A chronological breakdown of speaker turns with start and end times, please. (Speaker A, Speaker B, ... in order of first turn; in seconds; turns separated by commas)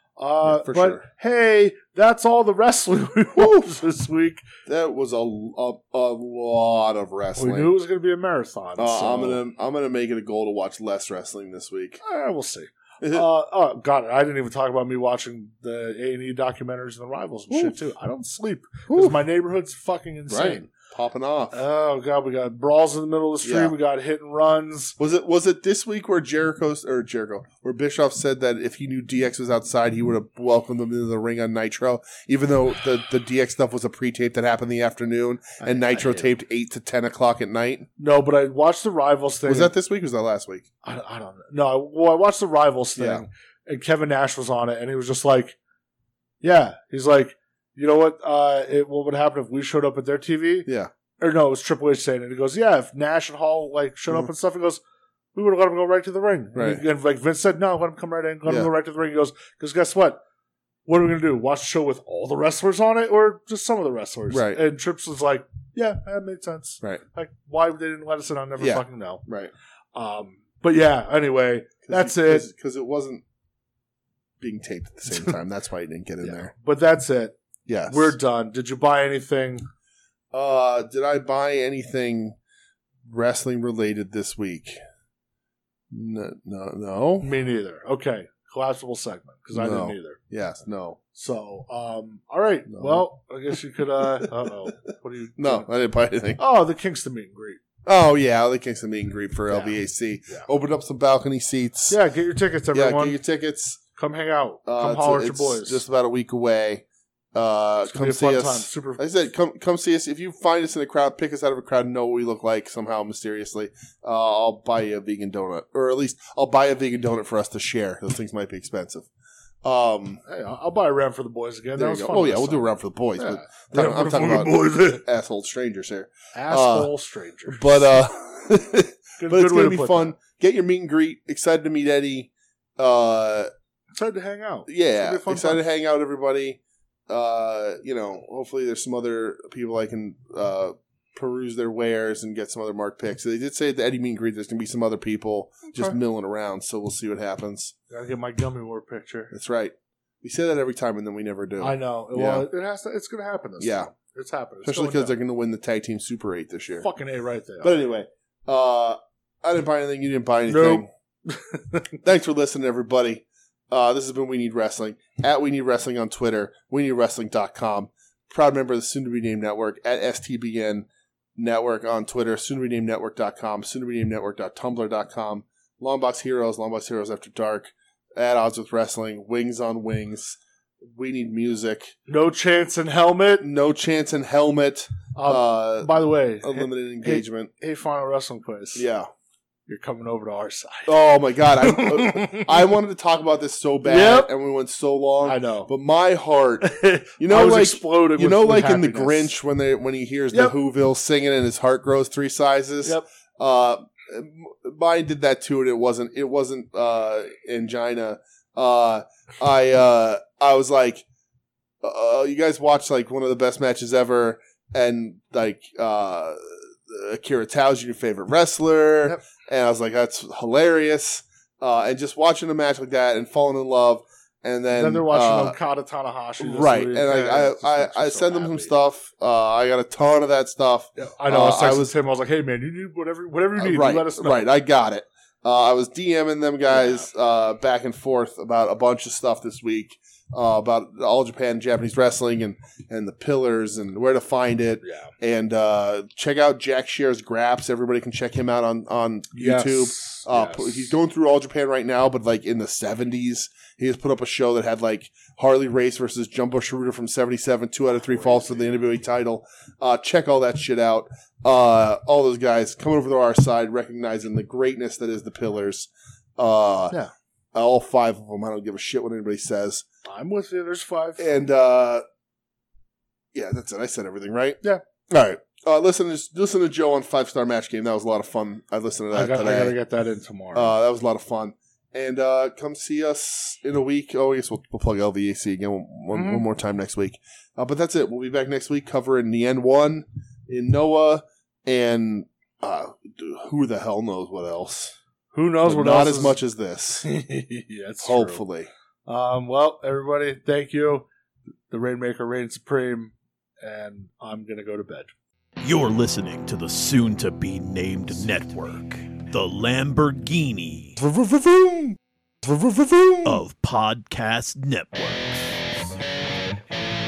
Speaker A: 0.2-4.4, Speaker B: 0.4-1.1, Speaker B: 3.4-3.7, Speaker B: 4.7-7.7, Speaker A: 7.4-9.4, Speaker B: 8.8-12.0, Speaker A: 12.0-20.7, Speaker B: 13.0-13.3, Speaker B: 17.5-17.8, Speaker B: 18.9-19.2, Speaker B: 20.3-21.6, Speaker A: 21.5-25.0, Speaker B: 23.4-23.8, Speaker B: 25.0-37.9, Speaker A: 35.6-36.3, Speaker A: 38.0-39.7, Speaker B: 39.5-40.7, Speaker A: 40.8-45.6, Speaker B: 43.0-43.2, Speaker A: 46.4-50.7, Speaker B: 50.7-50.9, Speaker A: 51.2-54.8, Speaker A: 55.4-60.2, Speaker B: 56.5-56.8, Speaker B: 58.5-58.7, Speaker A: 60.9-69.2, Speaker B: 64.3-64.6, Speaker B: 68.6-69.5, Speaker A: 70.0-72.5, Speaker B: 71.9-73.2, Speaker B: 74.4-76.5, Speaker A: 76.2-79.7, Speaker B: 77.7-78.2, Speaker B: 80.3-82.4, Speaker B: 83.0-84.8, Speaker B: 85.9-87.3, Speaker A: 87.2-90.2, Speaker B: 89.5-91.0, Speaker A: 91.1-95.7, Speaker B: 92.7-93.0, Speaker B: 94.2-94.5, Speaker B: 95.4-96.4, Speaker A: 96.4-97.6, Speaker B: 97.8-102.0, Speaker A: 99.5-100.5, Speaker A: 101.9-103.2, Speaker B: 102.7-103.8, Speaker A: 104.0-105.8, Speaker B: 104.7-119.1, Speaker A: 107.9-109.1, Speaker B: 119.6-120.2, Speaker A: 120.2-125.0, Speaker B: 121.8-126.9, Speaker A: 126.3-128.0, Speaker B: 127.5-133.5, Speaker A: 129.2-130.1, Speaker A: 133.9-135.6, Speaker B: 134.7-147.7, Speaker A: 145.7-146.0, Speaker A: 147.9-149.3, Speaker B: 149.3-152.5, Speaker A: 151.6-155.2, Speaker B: 153.6-153.9, Speaker B: 154.6-156.9, Speaker A: 156.8-157.8, Speaker B: 157.6-160.9, Speaker A: 160.5-162.0, Speaker B: 162.0-181.9, Speaker A: 182.1-183.5, Speaker B: 183.4-187.5, Speaker A: 185.2-188.9, Speaker B: 188.8-189.1, Speaker A: 189.7-190.9, Speaker B: 190.9-211.1, Speaker A: 191.5-192.7, Speaker A: 193.8-194.3, Speaker A: 195.2-195.7, Speaker A: 196.6-199.3, Speaker B: 211.8-225.6, Speaker A: 224.7-228.7, Speaker B: 226.4-231.9, Speaker A: 231.0-234.5, Speaker B: 233.6-267.0, Speaker A: 236.7-237.1, Speaker A: 244.8-245.1, Speaker A: 249.3-250.9, Speaker B: 267.5-269.9, Speaker A: 270.1-271.3, Speaker B: 271.2-272.0, Speaker B: 273.3-279.8, Speaker A: 279.1-280.7, Speaker B: 280.6-295.0, Speaker A: 286.1-286.4, Speaker A: 295.3-296.4, Speaker B: 295.6-297.1, Speaker A: 297.0-298.4, Speaker B: 298.0-298.7, Speaker A: 299.1-301.1, Speaker A: 301.7-305.1, Speaker C: 305.6-311.0, Speaker B: 311.3-312.0, Speaker C: 313.2-315.7